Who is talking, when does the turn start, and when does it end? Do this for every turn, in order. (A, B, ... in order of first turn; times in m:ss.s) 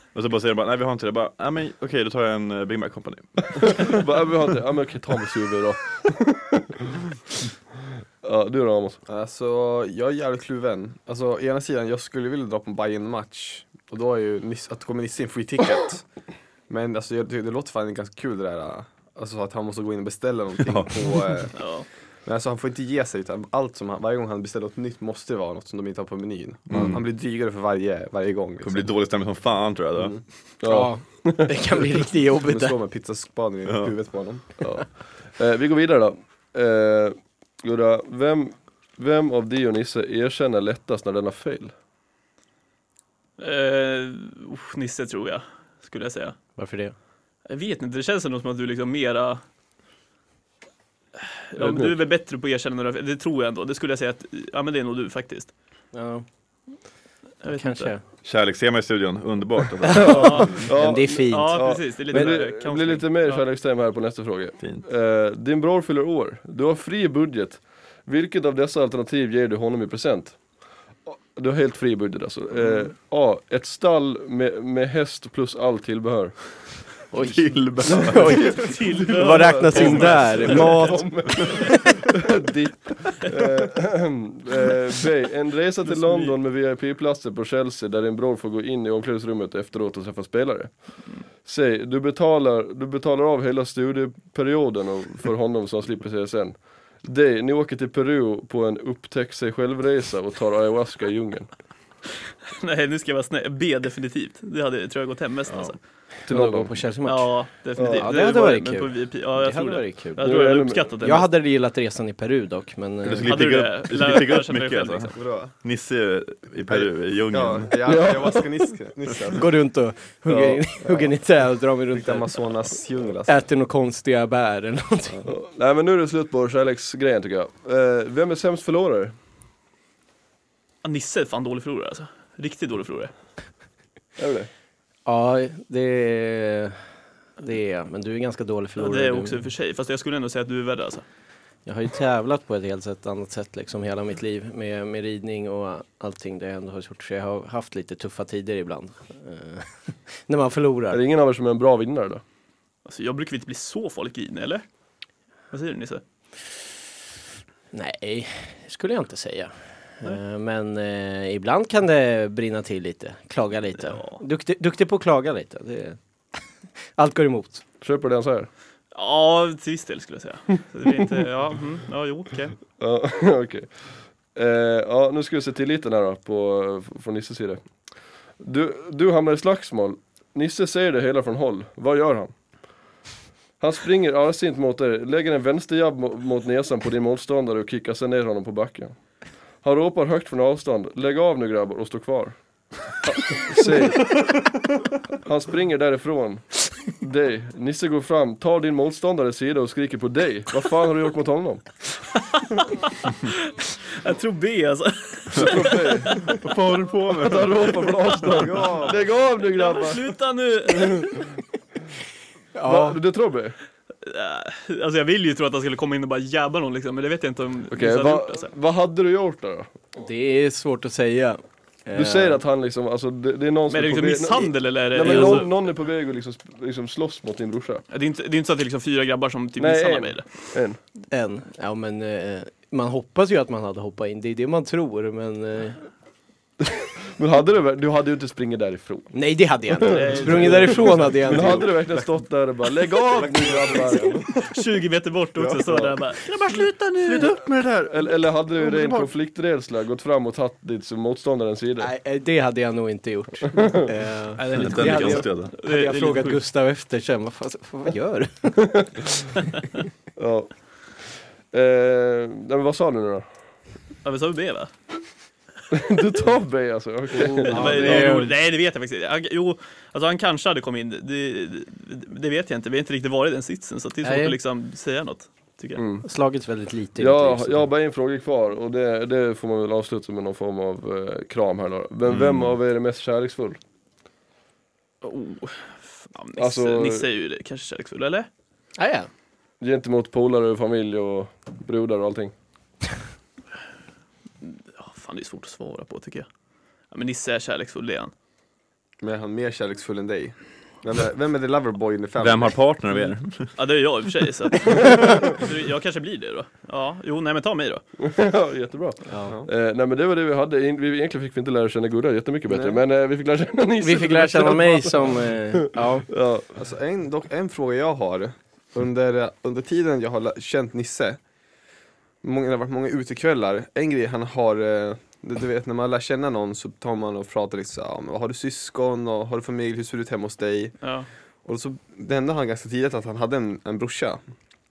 0:00.1-0:04.1 A
0:03.6-0:06.8 B
0:08.2-0:09.0 B
0:09.1-0:16.1 C
0:16.7-0:29.0 C
0:20.6-0:21.0 A
0:21.6-0:21.9 D
0:26.7-0:27.0 A
0:28.6-0:30.5 A
0:30.0-0:30.2 C
0:30.6-0:31.6 B
0:30.6-0:32.8 E
0:32.4-0:34.4 C
0:33.7-0:33.9 A
0:34.6-0:41.7 B
0:43.4-0:46.4 D
0:46.6-0:47.0 E
0:47.4-0:49.4 D
0:51.5-0:55.5 D
0:51.6-0:51.9 B
0:55.9-0:56.2 E
0:57.4-0:57.9 D
0:57.5-0:58.0 E
0:58.2-1:00.6 A
0:59.8-1:02.4 E
0:59.9-1:10.4 B
1:00.0-1:03.4 D
1:11.1-1:17.0 B
1:17.1-1:21.5 E
1:17.2-1:18.6 A
1:17.9-1:41.5 B
1:18.5-1:21.0 D
1:25.8-1:26.4 D
1:42.5-1:45.8 D
1:45.5-1:45.8 A
1:46.2-1:50.3 E
1:46.3-1:46.8 B
1:47.0-1:51.3 D
1:47.8-1:48.1 B
1:50.2-1:50.9 B
1:51.0-1:53.4 E
1:53.0-1:58.0 A
1:53.3-1:55.2 D
1:55.2-1:55.6 C
1:56.7-1:59.5 C
1:57.9-1:58.7 B
1:59.4-2:02.4 E
2:00.3-2:00.6 B
2:00.8-2:01.1 C
2:01.9-2:03.5 C
2:03.3-2:05.2 E
2:05.3-2:09.2 B
2:10.8-2:13.1 D
2:14.2-2:14.5 B
2:15.0-2:16.8 E
2:17.4-2:19.5 E
2:18.8-2:21.0 D
2:21.6-2:31.0 E
2:30.9-2:32.2 B
2:32.8-2:34.6 D
2:35.5-2:36.0 D
2:37.7-2:46.0 E
2:43.9-2:44.2 D
2:47.0-2:47.6 E
2:47.8-2:48.5 B
2:48.9-2:52.6 D
2:52.8-2:57.6 B
2:58.4-3:02.4 B
3:03.6-3:09.0 B
3:09.6-3:12.4 B
3:13.0-3:14.2 B
3:15.2-3:21.7 B
3:23.2-3:26.4 D
3:25.4-3:26.3 B
3:26.2-3:27.8 A
3:27.2-3:30.0 B
3:28.2-3:31.3 D
3:28.3-3:29.0 C
3:30.7-3:31.2 B
3:32.6-3:33.0 E
3:32.6-3:33.6 B
3:34.0-3:38.5 D
3:37.7-3:39.8 B
3:40.0-3:42.4 E
3:41.9-3:47.8 B
3:43.7-3:45.6 D
3:45.0-3:45.5 E
3:47.9-3:50.5 D
3:49.6-3:50.8 B
3:51.1-3:55.9 E
3:56.6-3:59.1 B
3:59.1-4:01.8 E
3:59.8-4:04.4 B
3:59.8-4:01.6 D
4:03.1-4:04.4 A
4:04.4-4:06.3 D
4:05.6-4:06.0 B
4:06.2-4:09.1 A
4:07.9-4:11.9 B
4:11.8-4:18.7 E
4:14.4-4:16.4 D
4:14.5-4:15.5 A
4:20.2-4:23.3 B
4:24.0-4:24.9 D
4:25.7-4:28.2 B
4:27.1-4:28.3 E
4:27.4-4:35.8 D
4:34.0-4:34.4 E
4:35.8-4:36.0 B
4:36.0-4:37.7 E
4:37.0-4:43.6 B
4:42.1-4:42.6 A
4:45.0-4:48.3 D
4:46.4-4:47.0 B
4:48.8-4:49.1 E
4:49.6-4:52.3 B
4:54.4-4:56.3 D
4:56.9-4:58.1 D
4:59.0-5:02.6 C
5:02.2-5:03.6 A
5:03.6-5:07.9 D
5:08.0-5:16.5 B
5:09.1-5:09.3 E
5:12.5-5:12.8 C
5:13.8-5:16.1 E
5:16.6-5:21.2 C
5:22.2-5:30.9 C
5:30.8-5:31.1 D
5:31.4-5:34.2 C